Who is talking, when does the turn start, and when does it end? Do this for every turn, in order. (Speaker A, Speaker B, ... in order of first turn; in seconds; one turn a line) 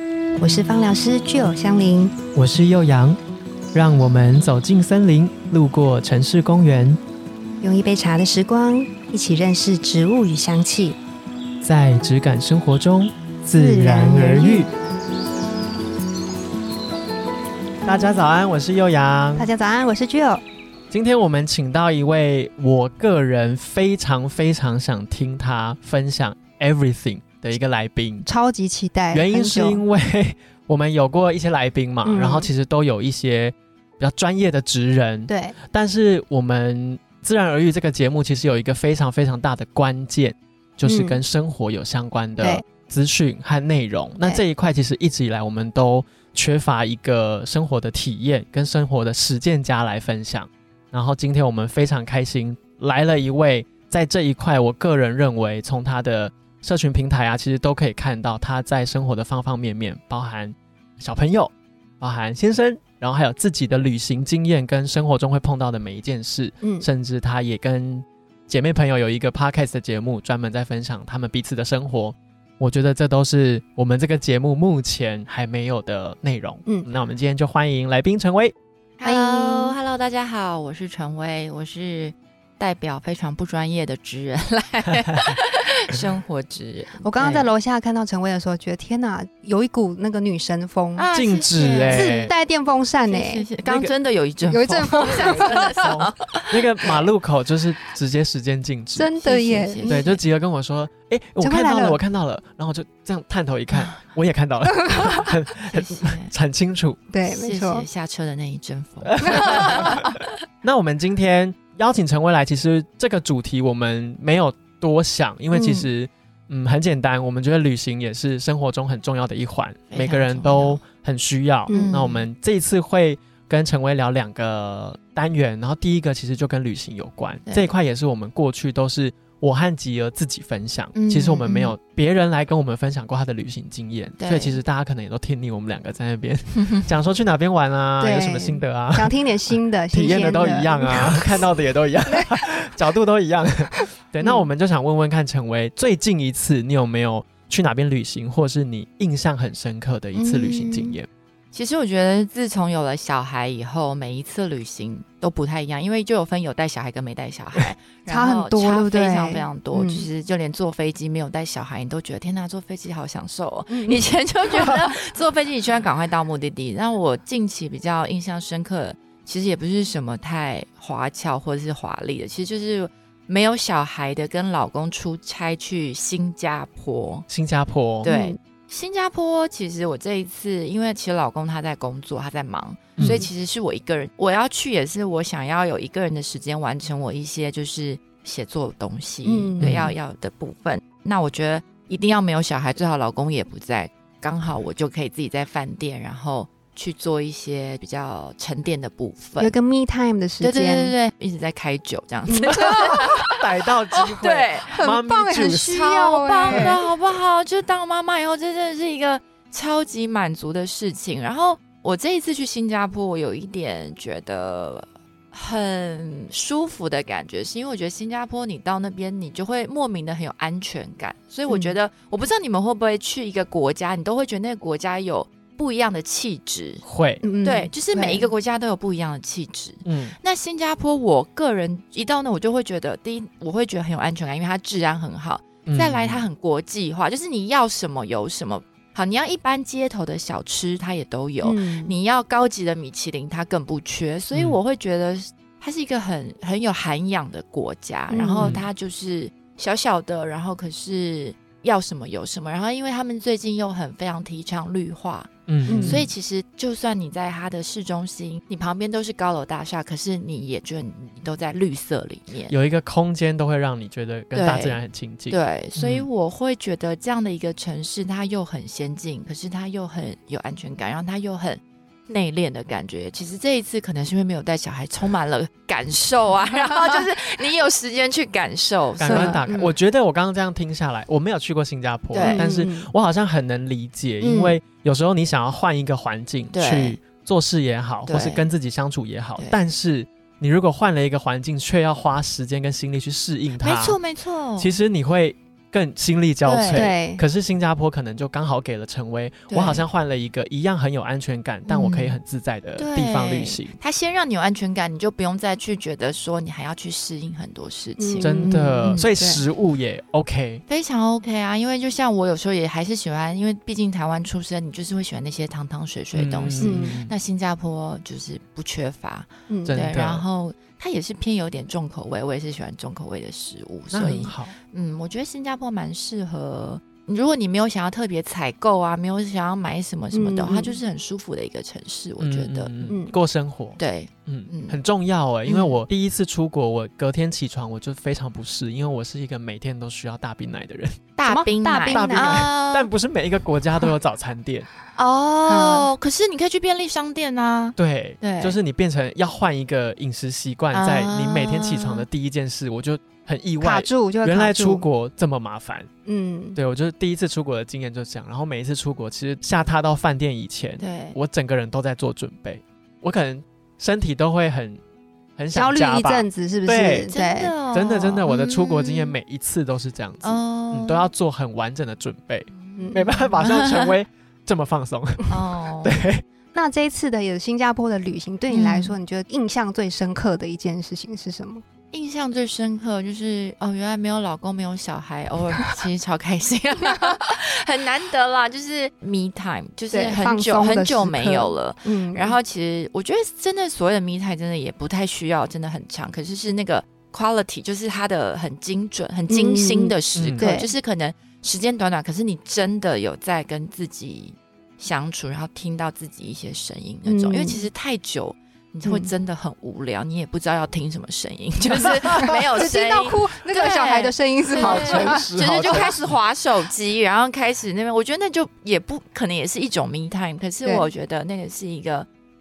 Speaker A: 0.4-2.2
Speaker B: 2.4-3.2
Speaker B: 3.7-7.0
Speaker A: 7.6-11.0
Speaker B: 11.6-14.7
Speaker A: 13.5-14.7
Speaker B: 17.9-19.5
Speaker A: 19.4-20.4
Speaker B: 20.9-28.3
Speaker A: 28.3-29.8
Speaker B: 29.1-78.5
Speaker A: 32.0-32.5
Speaker A: 35.3-35.6
Speaker A: 40.9-41.2
Speaker A: 42.4-42.6
Speaker A: 66.6-66.9
Speaker C: 79.0-87.5
Speaker A: 79.0-79.8
Speaker A: 87.0-91.1
Speaker C: 91.0-92.3
Speaker B: 91.1-92.3
Speaker A: 91.9-93.5
Speaker C: 93.1-97.0
Speaker B: 93.7-93.9
Speaker A: 94.5-95.9
Speaker B: 95.0-99.1
Speaker A: 99.0-100.1
Speaker C: 99.2-100.2
Speaker B: 99.9-107.0
Speaker A: 101.4-102.0
Speaker A: 104.8-105.2
Speaker C: 105.7-106.3
Speaker A: 107.1-107.9
Speaker C: 107.3-110.2
Speaker B: 109.0-110.1
Speaker A: 109.3-109.9
Speaker B: 110.6-151.1
Speaker C: 115.5-115.8
Speaker C: 119.9-120.8
Speaker A: 121.7-122.0
Speaker C: 121.7-122.3
Speaker C: 130.9-131.8
Speaker C: 134.2-134.6
Speaker C: 136.6-136.9
Speaker A: 138.0-141.4
Speaker A: 142.1-142.4
Speaker C: 150.1-151.0
Speaker C: 151.5-177.3
Speaker A: 158.1-160.1
Speaker A: 163.7-164.1
Speaker B: 177.3-178.1
Speaker C: 178.0-199.5
Speaker A: 178.0-178.4
Speaker B: 183.0-183.2
Speaker A: 183.0-183.3
Speaker A: 189.2-189.9
Speaker B: 189.6-189.9
Speaker A: 199.4-200.9
Speaker C: 200.4-203.4
Speaker A: 202.3-203.1
Speaker B: 202.5-205.8
Speaker C: 203.9-204.8
Speaker A: 204.7-206.8
Speaker C: 205.6-226.8
Speaker B: 206.5-206.8
Speaker A: 221.5-221.7
Speaker B: 226.8-227.2
Speaker A: 227.2-228.3
Speaker C: 227.4-262.6
Speaker B: 229.8-230.2
Speaker B: 235.7-236.2
Speaker A: 241.4-242.0
Speaker A: 248.1-248.6
Speaker B: 248.4-248.7
Speaker B: 255.5-256.1
Speaker A: 255.7-256.1
Speaker B: 262.5-266.1
Speaker C: 264.4-279.7
Speaker B: 279.0-294.0
Speaker A: 279.1-279.5
Speaker C: 282.1-282.5
Speaker A: 282.2-282.9
Speaker C: 284.2-284.6
Speaker C: 286.5-287.0
Speaker C: 288.1-288.5
Speaker C: 293.6-294.8
Speaker B: 294.6-303.7
Speaker C: 296.4-296.9
Speaker A: 296.7-297.2
Speaker C: 299.5-299.9
Speaker C: 301.7-302.2
Speaker C: 302.8-309.1
Speaker A: 308.0-309.4
Speaker B: 308.2-310.6
Speaker C: 310.7-332.9
Speaker B: 316.1-317.1
Speaker A: 316.6-317.0
Speaker A: 319.5-319.8
Speaker B: 319.6-320.2
Speaker B: 323.9-324.5
Speaker A: 330.1-330.8
Speaker B: 332.2-341.0
Speaker A: 332.9-333.1
Speaker C: 333.8-334.8
Speaker C: 335.5-335.8
Speaker C: 341.2-342.9
Speaker A: 341.3-342.5
Speaker B: 341.9-344.7
Speaker C: 345.0-348.6
Speaker A: 345.5-345.9
Speaker B: 347.8-355.9
Speaker C: 350.7-352.1
Speaker A: 353.6-354.9
Speaker A: 356.1-356.6
Speaker B: 356.6-364.8
Speaker C: 360.8-361.2
Speaker B: 365.4-367.1
Speaker A: 365.5-367.5
Speaker C: 367.1-369.2
Speaker B: 367.7-376.2
Speaker C: 370.2-371.1
Speaker C: 372.5-373.9
Speaker A: 372.8-373.1
Speaker C: 375.3-376.0
Speaker A: 376.5-381.6
Speaker C: 378.5-379.0
Speaker C: 381.9-422.1
Speaker A: 389.9-392.4
Speaker A: 399.3-400.7
Speaker B: 400.1-400.4
Speaker A: 407.1-407.7
Speaker A: 408.9-409.1
Speaker A: 412.2-415.9
Speaker B: 414.6-416.1